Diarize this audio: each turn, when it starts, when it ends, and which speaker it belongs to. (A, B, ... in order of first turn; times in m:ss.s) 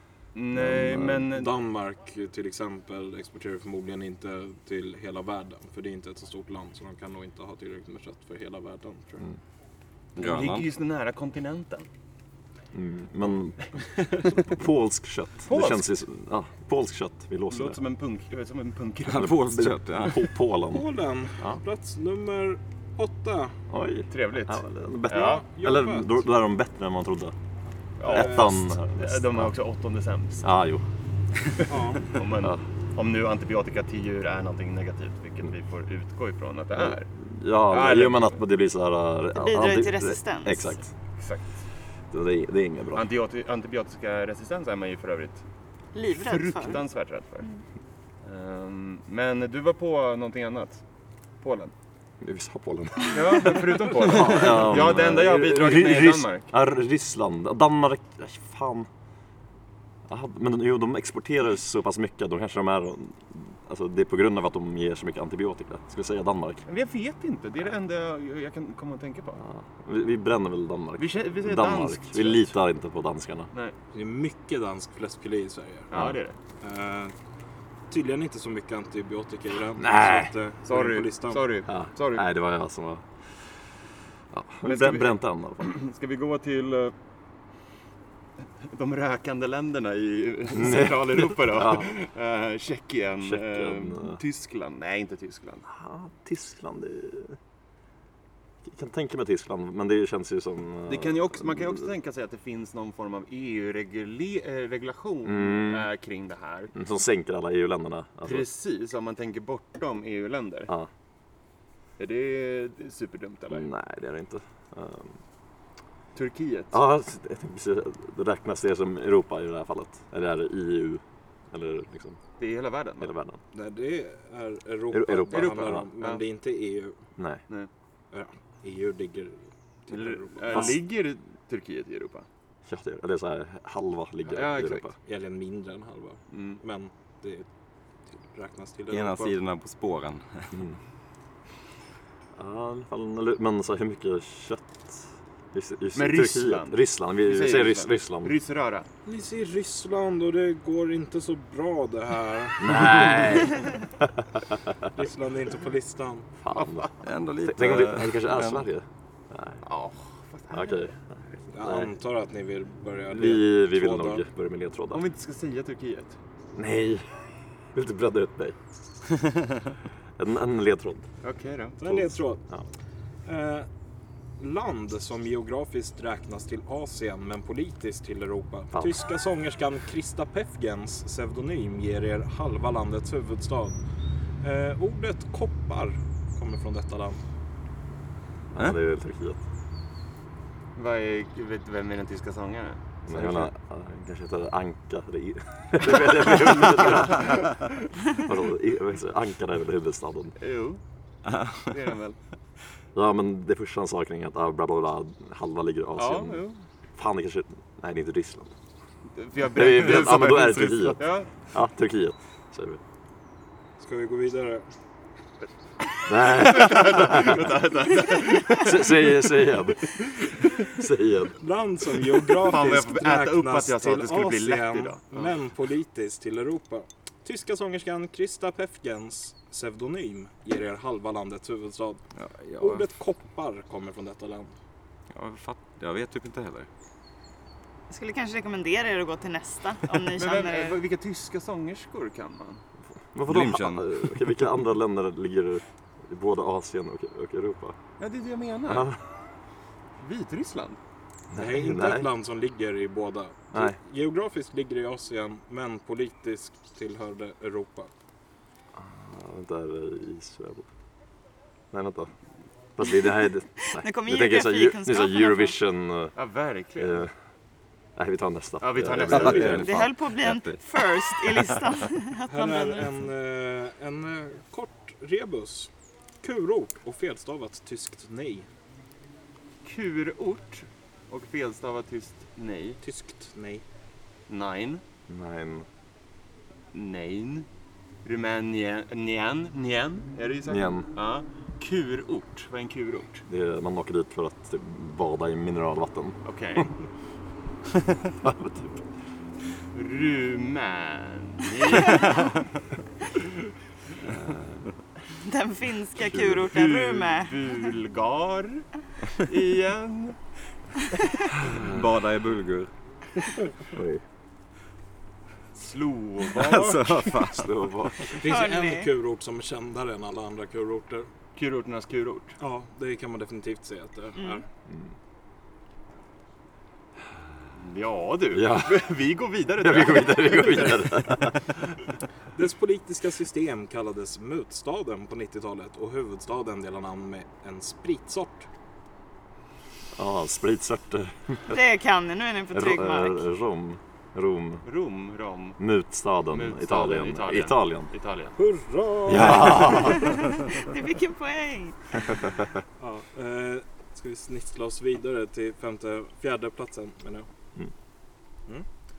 0:00.3-0:01.6 A
0:00.5-0:01.3 B
0:01.3-0:09.3 C
0:10.2-0:11.9 A
0:10.2-0:10.6 D
0:12.7-0:13.7 B
0:14.2-0:17.8 B
0:15.5-0:15.9 A
0:17.5-0:19.4 A
0:19.1-0:20.2 D
0:19.2-0:21.6 B
0:20.7-0:23.5 C
0:23.7-0:27.3 B
0:24.1-0:25.4 A
0:25.1-0:26.2 C
0:28.0-0:30.5 A
0:28.0-0:29.5 B
0:28.1-0:28.4 C
0:30.4-0:30.8 B
0:31.7-0:32.1 C
0:31.9-0:37.1 A
0:36.8-0:40.9 B
0:37.7-0:38.3 A
0:39.3-0:40.8 E
0:41.2-0:41.5 A
0:42.1-0:43.0 B
0:42.9-0:45.4 A
0:45.9-0:46.8 E
0:46.1-0:47.5 A
0:48.2-0:50.8 A
0:51.4-0:51.7 A
0:52.2-0:58.9 B
0:53.1-0:56.5 A
1:00.1-1:06.6 B
1:06.6-1:09.4 A
1:09.4-1:13.5 B
1:11.0-1:12.5 A
1:13.9-1:15.9 C
1:15.9-1:16.4 A
1:16.6-1:17.1 C
1:17.9-1:21.4 C
1:19.8-1:20.3 B
1:20.6-1:22.2 A
1:21.7-1:23.0 B
1:24.3-1:25.7 B
1:24.6-1:26.9 A
1:28.6-1:35.7 A
1:30.5-1:31.9 B
1:33.2-1:34.2 B
1:35.7-1:37.4 B
1:38.6-1:41.7 B
1:40.9-1:46.7 A
1:45.2-1:45.9 B
1:46.7-1:48.5 B
1:48.2-1:50.7 A
1:52.0-1:53.7 A
1:53.5-1:55.2 B
1:56.1-1:56.8 A
1:56.7-2:02.2 B
2:02.4-2:03.1 A
2:03.0-2:03.4 B
2:03.5-2:07.0 C
2:04.9-2:05.8 B
2:05.3-2:06.2 A
2:07.2-2:07.4 B
2:08.1-2:10.8 C
2:09.9-2:12.2 A
2:10.5-2:10.8 B
2:12.6-2:14.9 B
2:14.3-2:14.9 A
2:15.0-2:17.4 C
2:16.3-2:16.6 A
2:18.2-2:19.4 C
2:18.9-2:20.5 D
2:22.4-2:28.3 B
2:25.9-2:28.9 A
2:29.0-2:33.3 C
2:32.6-2:34.1 B
2:34.9-2:36.3 C
2:36.4-2:36.9 B
2:36.6-2:36.9 A
2:37.0-2:38.6 D
2:37.4-2:39.6 B
2:39.6-2:40.8 A
2:40.5-2:41.0 B
2:41.5-2:44.2 C
2:41.6-2:41.9 B
2:43.1-2:45.0 B
2:44.9-2:46.2 A
2:46.6-2:47.0 B
2:47.7-2:48.6 B
2:50.2-2:51.1 B
2:51.2-2:51.8 A
2:51.8-2:52.4 C
2:51.8-2:52.6 B
2:53.2-2:53.7 C
2:54.4-3:03.8 C
2:58.7-2:59.0 B
3:04.4-3:07.2 C
3:08.5-3:09.4 B
3:10.7-3:13.5 A
3:13.1-3:17.4 B
3:16.1-3:17.4 A
3:18.1-3:20.3 B
3:20.4-3:20.8 A
3:21.6-3:22.2 A
3:22.9-3:26.4 B
3:26.0-3:26.6 A
3:27.0-3:28.6 B
3:29.1-3:31.3 A
3:29.5-3:32.8 B
3:33.8-3:34.6 C
3:36.1-3:37.5 B
3:36.2-3:39.2 A
3:38.6-3:41.4 B
3:40.1-3:40.6 A
3:41.4-3:52.0 C
3:42.3-3:45.3 A
3:52.2-3:52.8 D
3:52.6-3:54.5 C
3:55.1-3:56.7 D
3:57.9-4:00.8 E
4:00.0-4:02.6 A
4:03.1-4:07.8 B
4:03.3-4:03.9 D
4:08.0-4:08.9 A
4:08.7-4:09.0 B
4:10.0-4:10.8 A
4:11.3-4:12.1 B
4:11.3-4:17.9 C
4:13.5-4:13.8 B
4:18.7-4:20.6 B
4:21.7-4:22.1 B
4:22.8-4:26.1 B
4:23.8-4:25.6 E
4:26.1-4:27.0 A
4:26.8-4:27.1 B
4:28.0-4:29.9 B
4:28.6-4:29.7 A
4:29.1-4:31.6 D
4:29.5-4:32.9 E
4:32.3-4:35.7 C
4:36.2-4:38.5 C
4:39.6-4:42.8 A
4:42.8-4:43.6 C
4:44.3-4:44.8 A
4:45.1-4:45.7 B
4:46.7-4:47.4 A
4:48.0-4:53.2 A
4:50.5-4:50.9 B
4:53.3-4:56.6 B
4:56.2-4:56.7 A
4:58.2-4:58.8 B
4:59.7-5:02.5 A
5:05.2-5:07.7 E
5:06.0-5:06.4 B
5:06.1-5:10.2 A
5:11.4-5:12.7 D
5:11.4-5:11.8 B
5:13.7-5:14.0 B
5:15.5-5:17.2 A
5:16.3-5:17.5 D
5:17.3-5:18.2 B
5:18.1-5:21.1 C
5:18.2-5:18.9 E
5:21.4-5:22.4 A
5:22.4-5:24.4 C
5:24.2-5:24.4 E
5:27.6-5:31.2 A
5:28.3-5:28.9 B
5:29.6-5:31.5 B
5:32.3-5:38.5 C
5:39.9-5:41.6 B
5:41.5-5:43.2 E
5:42.5-5:44.6 B
5:44.6-5:45.6 A
5:45.6-5:47.9 B
5:46.3-5:48.3 A
5:48.4-5:50.2 C
5:49.0-5:50.2 B
5:49.8-5:52.1 E
5:52.8-5:57.3 C